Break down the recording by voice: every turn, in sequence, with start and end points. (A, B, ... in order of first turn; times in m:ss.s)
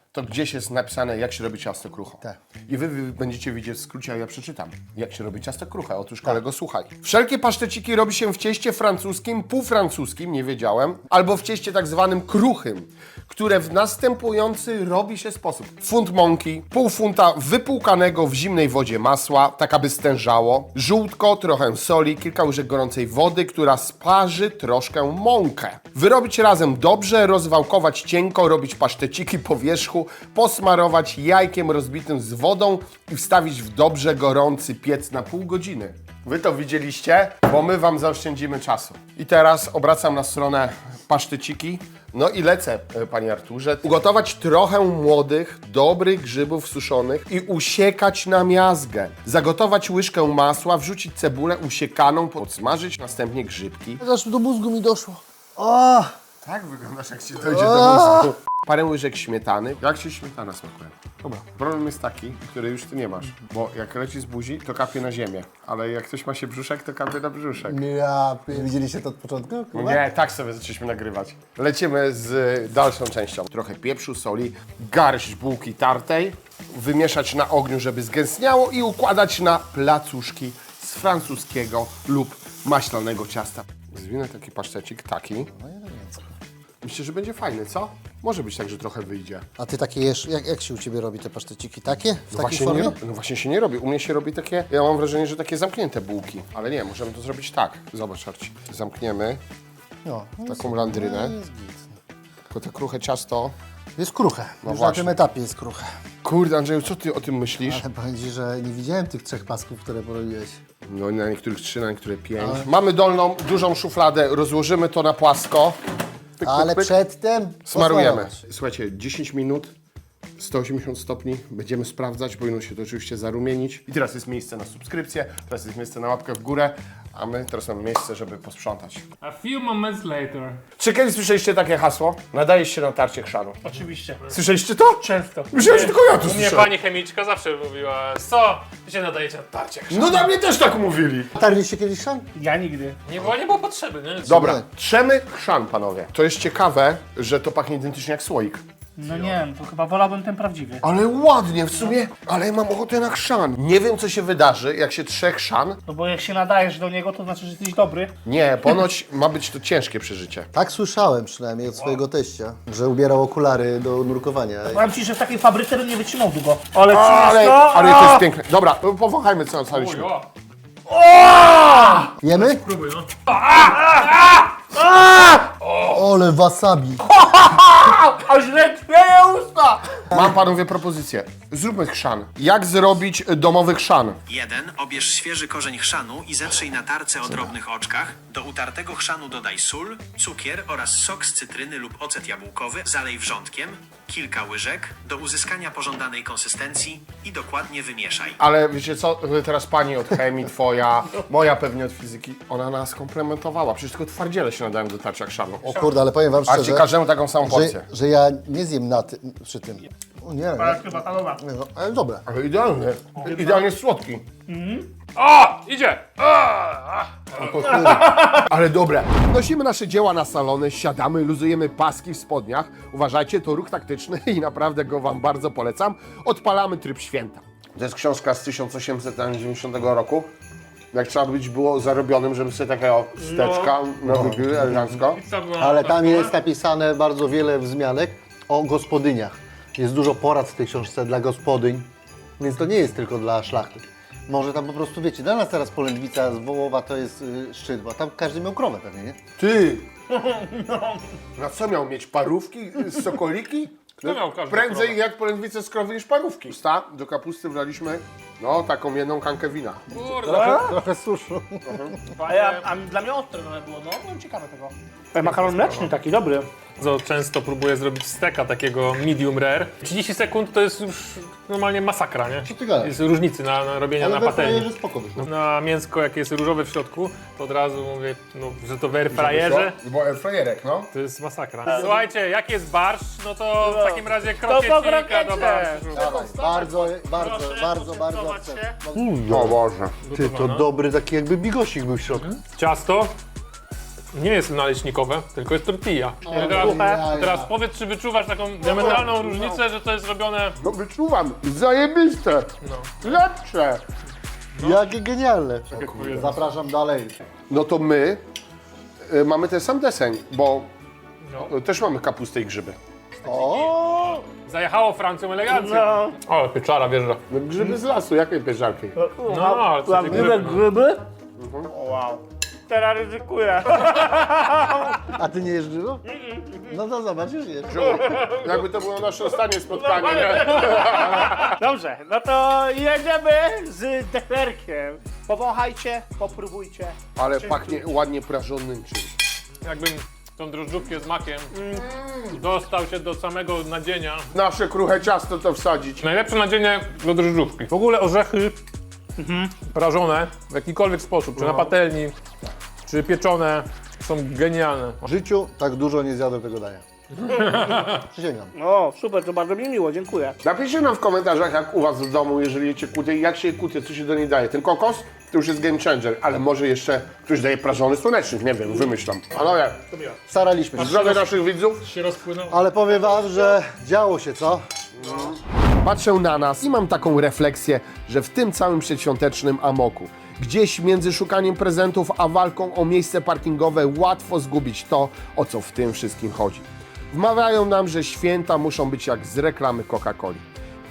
0:00.1-0:54.0 A
0:54.0-0:56.1 B
0:56.4-1:01.0 A
0:57.4-0:58.3 B
1:01.5-1:07.8 A
1:07.6-1:10.0 B
1:09.7-1:25.5 A
1:25.5-1:26.4 B
1:26.8-1:29.5 A
1:29.6-1:33.0 B
1:32.3-1:39.4 A
1:40.0-1:42.0 B
1:40.5-1:41.4 A
1:42.5-1:43.5 A
1:44.0-1:45.9 B
1:44.6-1:45.2 A
1:46.2-1:47.8 A
1:47.7-1:50.6 B
1:50.9-1:55.8 A
1:52.4-1:52.7 B
1:56.4-1:56.9 A
1:56.4-1:58.4 B
1:57.7-1:59.7 A
2:00.4-2:09.0 A
2:09.2-2:10.6 C
2:10.8-2:13.6 A
2:13.6-2:14.4 D
2:14.3-2:16.7 A
2:15.0-2:15.6 D
2:15.6-2:20.3 C
2:19.9-2:21.3 A
2:21.4-2:22.3 B
2:22.4-2:23.0 D
2:23.1-2:24.4 C
2:24.2-2:29.4 A
2:24.3-2:24.6 B
2:29.0-2:30.8 D
2:30.8-2:35.8 A
2:35.9-2:38.2 D
2:38.2-2:40.5 A
2:40.5-2:44.9 B
2:44.7-2:48.2 D
2:46.9-2:50.1 A
2:49.7-2:50.3 C
2:50.9-2:52.1 D
2:52.2-2:52.6 B
2:52.2-2:54.4 C
2:53.5-2:54.1 D
2:54.7-2:55.5 D
2:55.6-2:56.0 C
2:55.9-2:57.0 B
2:57.0-3:00.1 D
3:00.1-3:04.2 A
3:04.3-3:18.4 E
3:18.4-3:25.7 A
3:25.6-3:26.9 B
3:26.5-3:27.9 A
3:27.4-3:32.2 B
3:30.6-3:31.4 D
3:32.3-3:34.3 A
3:33.2-3:33.6 D
3:34.5-3:34.9 D
3:35.2-3:37.2 C
3:37.4-3:50.3 A
3:37.6-3:38.0 B
3:38.0-3:38.4 D
3:50.9-3:55.2 A
3:53.2-3:53.8 D
3:54.0-3:55.0 B
3:55.2-3:56.4 C
3:55.6-4:09.2 B
4:09.4-4:09.9 A
4:10.1-4:11.0 D
4:11.4-4:20.0 A
4:14.0-4:15.0 C
4:19.9-4:20.8 C
4:20.2-4:22.0 B
4:20.3-4:20.7 D
4:21.6-4:22.0 A
4:22.2-4:22.7 C
4:22.3-4:26.5 D
4:25.2-4:25.9 C
4:26.8-4:39.8 C
4:32.4-4:33.0 B
4:34.0-4:35.3 B
4:39.1-4:40.9 A
4:40.9-4:46.7 C
4:41.7-4:42.0 D
4:43.6-4:48.8 D
4:45.9-4:49.6 B
4:49.0-4:49.9 A
4:50.0-4:50.7 C
4:50.1-4:52.4 B
4:52.4-4:53.2 C
4:54.1-5:00.6 C
4:56.2-4:57.5 B
4:56.3-4:57.0 D
4:58.6-4:59.1 A
5:00.6-5:03.8 A
5:02.6-5:03.2 C
5:04.6-5:04.8 C
5:04.6-5:07.2 B
5:05.7-5:06.3 A
5:05.7-5:06.4 C
5:07.5-5:08.2 A
5:09.1-5:10.7 A
5:11.3-5:11.5 C
5:11.4-5:12.8 A
5:13.2-5:13.7 C
5:13.2-5:14.2 B
5:14.3-5:17.2 C
5:15.5-5:16.2 D
5:17.3-5:18.9 A
5:19.0-5:21.0 D
5:19.3-5:20.6 C
5:21.4-5:21.7 A
5:21.7-5:25.2 D
5:25.2-5:26.0 B
5:26.1-5:26.8 D
5:26.7-5:28.0 B
5:27.7-5:31.6 A
5:28.0-5:28.4 D
5:29.7-5:37.9 D
5:37.2-5:39.1 A
5:39.6-5:41.5 C
5:41.5-5:41.8 D
5:41.7-5:42.4 A
5:42.3-5:44.3 C
5:44.3-5:46.0 A
5:46.0-5:48.6 C
5:49.2-5:49.6 D
5:49.7-5:52.2 C
5:51.4-5:51.7 D
5:52.9-5:55.1 C
5:55.0-5:56.8 B
5:57.2-5:58.0 C
5:57.6-5:58.5 B
5:58.6-6:00.4 D
6:00.4-6:09.8 A
6:10.3-6:11.2 B
6:10.8-6:11.8 A
6:10.8-6:12.7 C
6:12.5-6:14.6 B
6:15.0-6:30.4 A